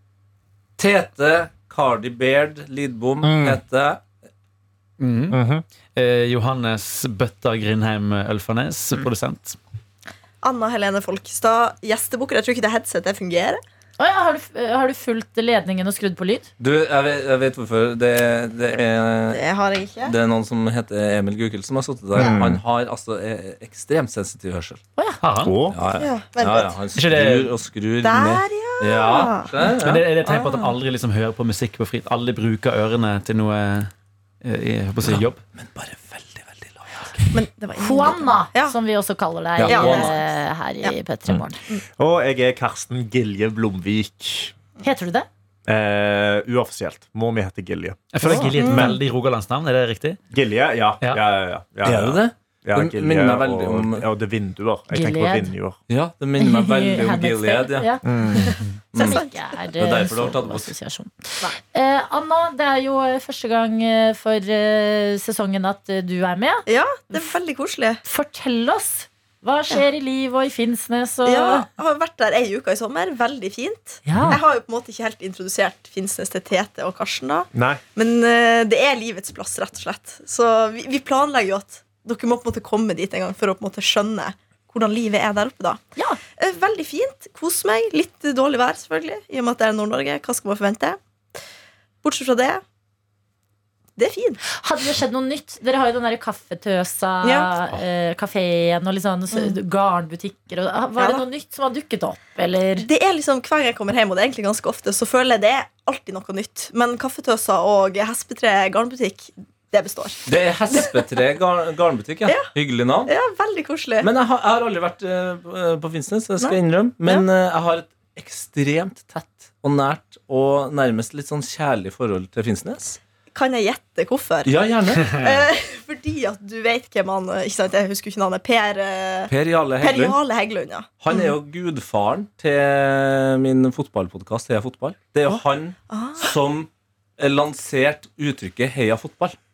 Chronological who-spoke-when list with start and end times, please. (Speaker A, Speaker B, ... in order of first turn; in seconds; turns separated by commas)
Speaker A: 0.8-4.0, Speaker B: 3.2-3.6, Speaker C: 5.0-5.4, Speaker B: 5.3-5.6, Speaker C: 5.9-9.6, Speaker D: 10.4-13.6, Speaker E: 14.0-16.5, Speaker A: 16.6-19.4, Speaker D: 19.3-20.1, Speaker A: 20.0-24.8, Speaker B: 22.1-22.6, Speaker C: 25.2-25.6, Speaker B: 25.4-25.8, Speaker A: 25.7-30.1, Speaker D: 26.0-26.8, Speaker C: 26.9-27.6, Speaker D: 28.0-29.5, Speaker C: 29.7-33.9, Speaker D: 30.2-30.7, Speaker C: 34.4-35.4, Speaker A: 35.0-37.3, Speaker D: 37.3-38.7, Speaker E: 37.8-41.6, Speaker A: 39.6-40.1, Speaker D: 39.7-40.9, Speaker B: 42.0-44.5, Speaker E: 44.8-45.3, Speaker B: 45.6-49.0, Speaker C: 48.1-50.2, Speaker E: 48.3-48.9, Speaker D: 48.6-48.9, Speaker B: 50.3-55.8, Speaker A: 51.8-54.0, Speaker E: 54.9-55.5, Speaker A: 55.9-57.9, Speaker E: 56.4-58.4, Speaker B: 58.0-58.5, Speaker D: 58.5-59.3, Speaker A: 58.9-59.2, Speaker E: 58.9-67.3, Speaker A: 59.8-60.7, Speaker D: 66.7-68.0, Speaker E: 68.0-71.7, Speaker D: 71.2-85.8, Speaker E: 74.0-74.4, Speaker B: 77.5-77.8, Speaker D: 86.4-91.0, Speaker D: 92.0-92.6, Speaker D: 94.0-94.4, Speaker E: 94.5-102.9, Speaker D: 97.2-97.5, Speaker D: 101.0-101.2, Speaker D: 102.8-111.0, Speaker A: 110.2-113.1, Speaker D: 113.0-114.1, Speaker A: 114.0-123.0, Speaker D: 116.4-117.2, Speaker D: 123.3-124.5, Speaker A: 124.4-125.1, Speaker D: 125.1-131.3, Speaker A: 129.3-130.2, Speaker A: 131.0-139.3, Speaker D: 135.9-136.3